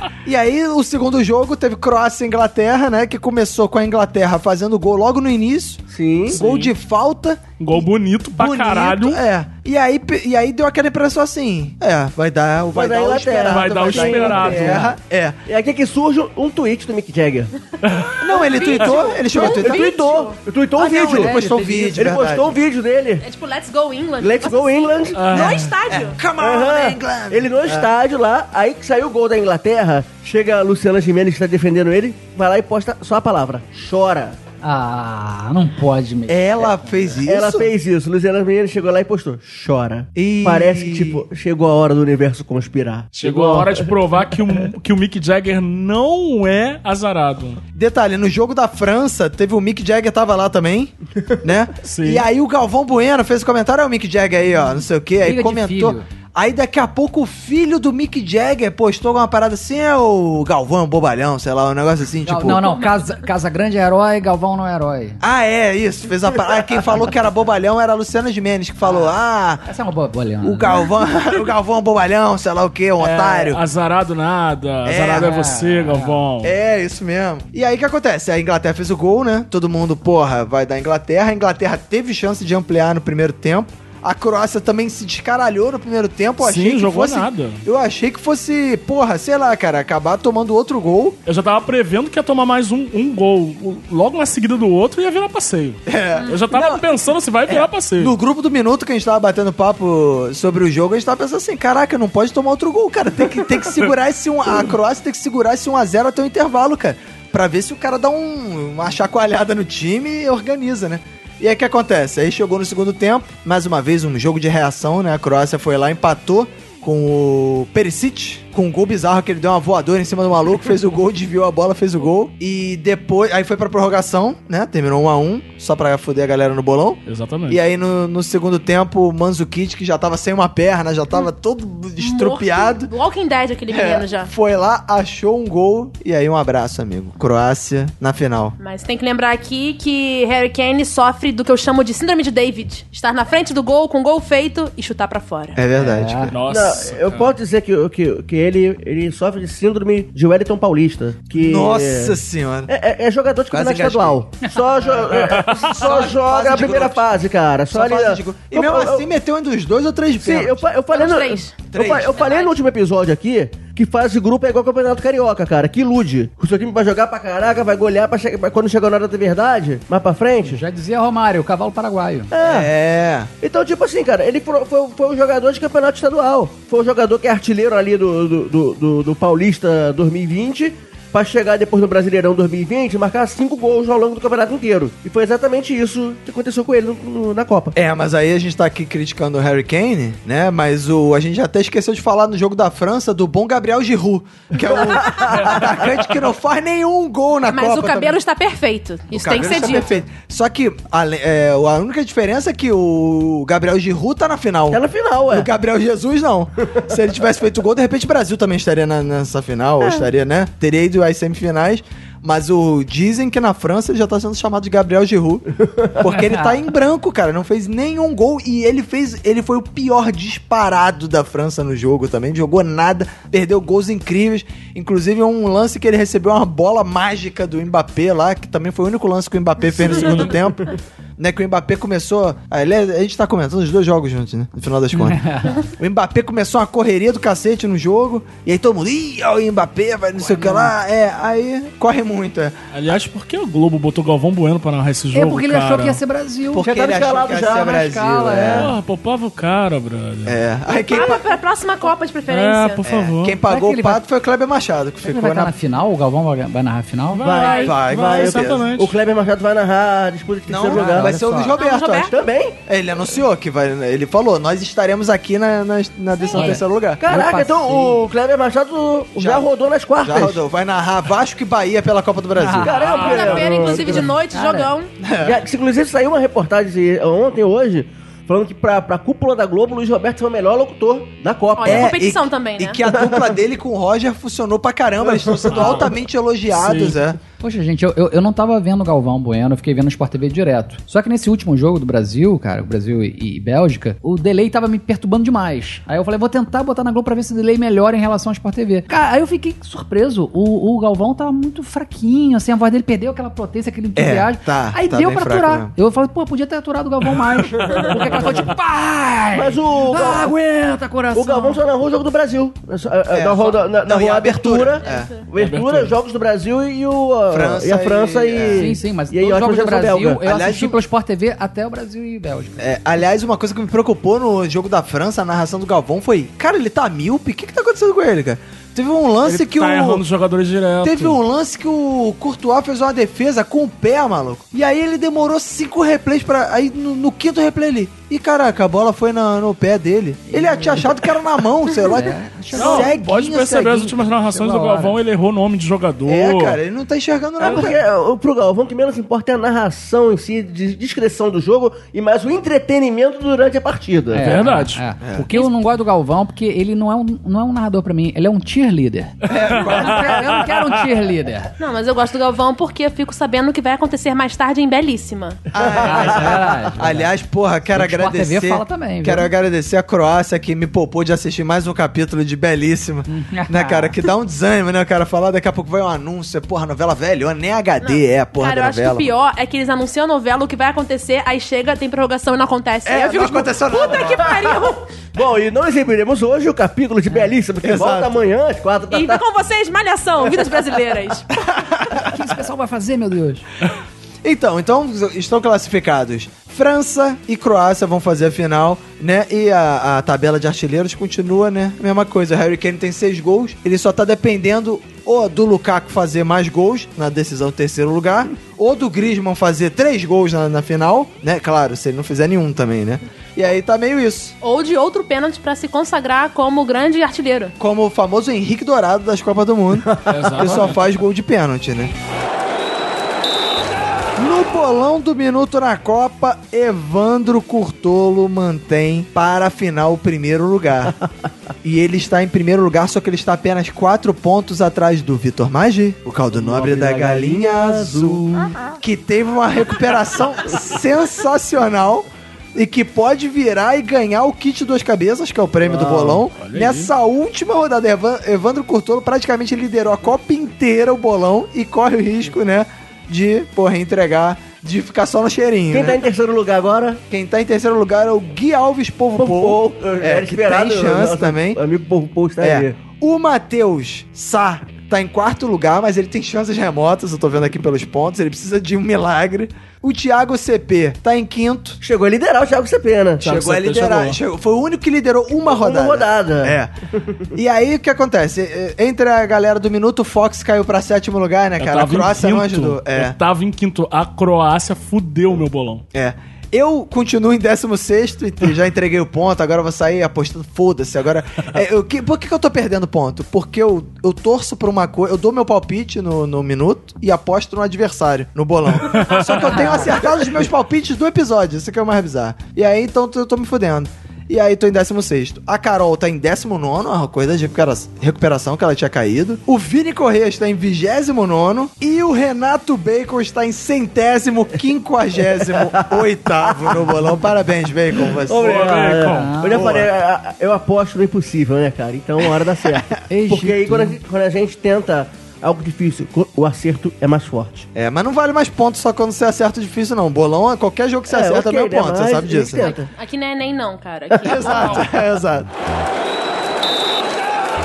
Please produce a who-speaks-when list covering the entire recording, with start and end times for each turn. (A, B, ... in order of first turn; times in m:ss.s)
0:00.2-0:15.4 A
0:05.9-0:06.4 B
0:06.3-0:06.7 C
0:07.6-0:09.2 C
0:12.7-0:14.9 B
0:13.4-0:14.9 C
0:15.5-0:17.5 B
0:17.8-0:19.1 C
0:17.9-0:20.4 D
0:18.2-0:19.9 A
0:19.3-0:21.4 B
0:20.8-0:22.6 A
0:20.8-0:22.2 E
0:22.0-0:23.2 B
0:23.2-0:26.2 D
0:24.2-0:25.6 B
0:25.2-0:25.8 C
0:25.9-0:27.9 A
0:26.3-0:34.4 B
0:34.6-0:36.8 E
0:36.3-0:37.7 A
0:37.2-0:43.8 B
0:40.2-0:41.2 A
0:43.2-0:47.6 C
0:47.8-1:02.8 A
0:51.8-0:52.2 C
0:55.2-0:56.1 E
1:02.3-1:05.2 E
1:02.8-1:03.1 D
1:05.2-1:09.6 A
1:08.9-1:09.1 E
1:09.6-1:10.8 E
1:10.4-1:13.6 A
1:13.0-1:16.5 C
1:14.8-1:15.5 A
1:15.1-1:16.2 E
1:16.4-1:31.2 A
1:26.4-1:27.6 C
1:31.3-1:38.1 C
1:35.9-1:36.8 A
1:37.5-2:12.9 A
2:07.1-2:07.6 C
2:12.0-2:14.3 D
2:13.7-2:18.6 A
2:18.6-2:25.6 D
2:25.6-2:26.4 A
2:25.7-2:26.3 E
2:26.3-2:27.3 C
2:26.5-2:32.2 B
2:31.4-2:32.7 A
2:32.7-2:39.0 B
2:33.5-2:34.2 A
2:35.2-2:36.0 C
2:35.7-2:37.0 A
2:37.7-2:40.6 A
2:40.2-2:50.6 B
2:40.9-2:42.6 D
2:41.7-2:42.2 A
2:50.4-2:52.3 E
2:52.3-2:52.7 B
2:52.4-2:53.3 A
2:53.4-3:07.8 B
3:07.8-3:18.2 A
3:14.7-3:15.8 B
3:17.5-3:20.0 D
3:19.1-4:02.6 A
3:24.7-3:25.5 B
3:36.1-3:36.6 E
3:54.9-3:55.6 E
4:00.2-4:00.7 E
4:02.7-4:06.0 C
4:05.1-4:06.7 E
4:06.5-4:08.7 A
4:06.6-4:07.7 B
4:07.4-4:08.7 E
4:08.3-4:08.7 B
4:08.5-4:10.4 C
4:10.2-4:11.3 A
4:10.7-4:12.8 D
4:12.3-4:13.4 C
4:12.8-4:15.6 A
4:13.4-4:14.0 E
4:15.0-4:17.4 E
4:17.1-4:19.0 C
4:17.2-4:21.2 B
4:17.3-4:17.8 D
4:17.6-4:18.7 A
4:20.5-4:22.1 A
4:20.6-4:21.6 E
4:21.6-4:22.2 D
4:22.1-4:22.6 B
4:22.7-4:27.0 A
4:26.2-4:26.6 D
4:26.3-4:28.0 E
4:27.0-4:30.4 B
4:29.2-4:29.5 A
4:30.0-4:32.8 A
4:32.4-4:34.7 E
4:32.6-4:34.1 B
4:32.8-4:33.8 C
4:32.9-4:34.9 D
4:35.0-4:35.4 A
4:35.2-4:42.0 B
4:41.6-4:42.8 D
4:41.6-4:47.2 A
4:45.0-4:45.9 B
4:45.5-4:45.9 C
4:46.5-4:47.0 C
4:47.4-5:11.6 E
5:04.0-5:05.7 A
5:07.7-5:08.0 B
5:09.3-5:10.3 B
5:11.1-5:20.2 B
5:13.1-5:15.1 A
5:14.8-5:15.2 D
5:15.4-5:16.0 C
5:17.3-5:18.8 A
5:18.5-5:22.7 E
5:20.2-5:20.8 A
5:22.6-5:30.0 A
5:29.2-5:31.2 C
5:30.8-5:44.0 A
5:40.3-5:40.9 E
5:41.8-5:43.0 E
5:42.5-5:46.6 C
5:44.3-5:45.0 E
5:46.0-5:47.8 A
5:47.4-5:54.4 B
5:54.1-6:01.5 E
5:54.2-5:54.8 C
5:55.0-5:55.3 A
5:59.3-6:00.4 A
5:59.4-6:00.0 C
6:01.6-6:05.4 D
6:05.5-6:19.1 A
6:05.6-6:06.6 B
6:05.8-6:07.1 E
6:07.7-6:09.3 E
6:13.1-6:14.0 E
6:17.8-6:24.9 D
6:22.9-6:24.5 A
6:24.0-6:24.4 B
6:25.2-6:29.2 B
6:27.6-6:28.2 A
6:28.9-6:31.3 D
6:31.4-6:32.1 A
6:32.0-6:33.4 E
6:34.2-6:54.4 A
6:54.4-6:57.6 D
6:57.6-7:01.9 A
6:59.9-7:00.6 B
7:00.1-7:00.8 C
7:04.2-7:11.0 A
7:11.6-7:36.0 A
7:16.3-7:18.6 B
7:25.7-7:26.2 B
7:26.3-7:26.9 C
7:35.7-7:37.0 B
7:37.1-7:41.6 A
7:39.2-7:42.8 B
7:42.4-7:51.8 A
7:51.8-7:53.5 B
7:53.2-7:56.7 A
7:53.4-7:54.2 C
7:55.5-7:57.2 B
7:57.4-8:03.2 A
8:01.6-8:05.8 C
8:05.9-8:38.7 A
8:18.8-8:19.4 C
8:19.3-8:20.0 E
8:35.4-8:36.9 B
8:38.0-8:47.7 B
8:38.4-8:39.4 C
8:39.0-8:39.7 E
8:39.5-8:39.9 A
8:42.7-8:42.9 A
8:43.1-8:44.0 E
8:47.8-8:52.7 A
8:51.1-8:52.9 B
8:52.5-8:54.9 D
8:54.2-8:55.5 A